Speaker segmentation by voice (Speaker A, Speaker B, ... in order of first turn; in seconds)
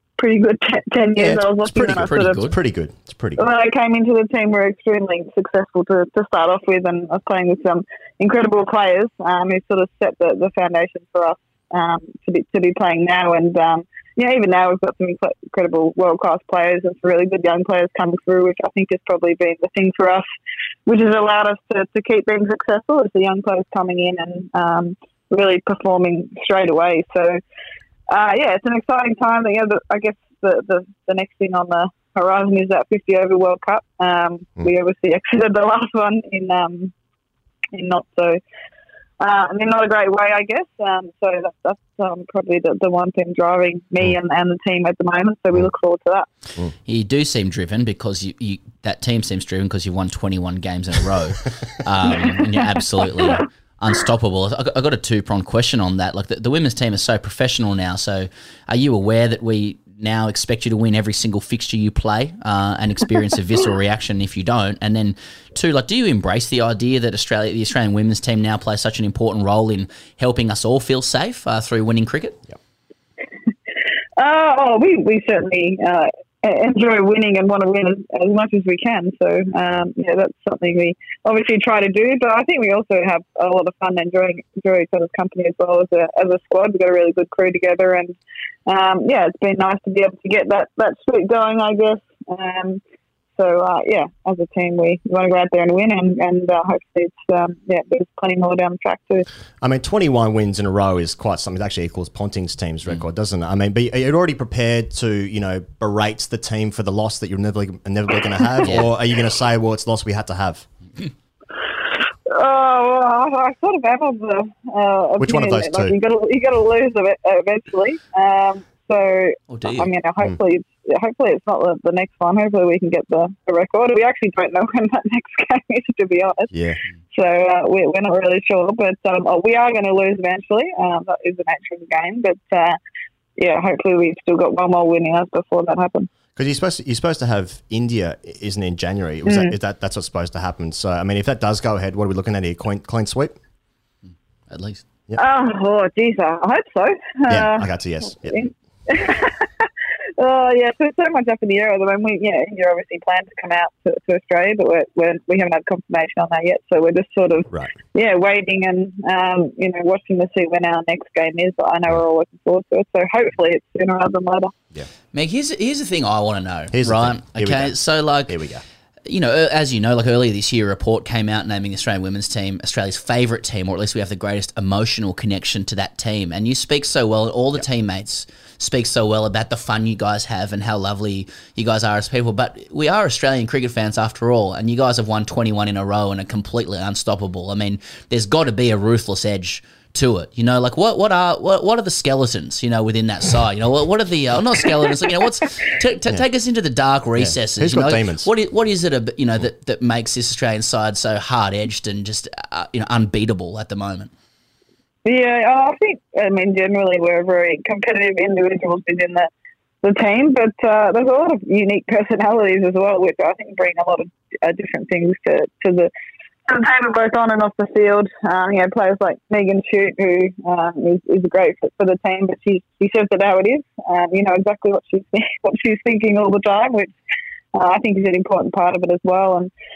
Speaker A: 0.2-2.5, 3.4-20.3, 20.9-27.4, 28.1-36.9, 37.7-38.4, 39.2-46.3, 74.2-88.2, 88.7-92.8, 93.4-99.3, 112.3-126.5, 127.1-132.8, 133.4-136.1, 139.2-139.6, 145.2-147.7, 148.2-164.6, 205.1-209.3, 209.8-215.9, 216.5-226.9, 227.5-229.5
Speaker B: 1.2-3.5, 99.6-110.7, 115.2-116.0, 126.5-126.8, 136.4-143.4, 147.3-148.4, 166.7-168.6, 197.2-198.3
Speaker C: 1.8-2.6, 46.9-72.4, 108.7-108.9, 119.5-119.9, 144.5-144.8, 165.1-168.4, 169.1-204.1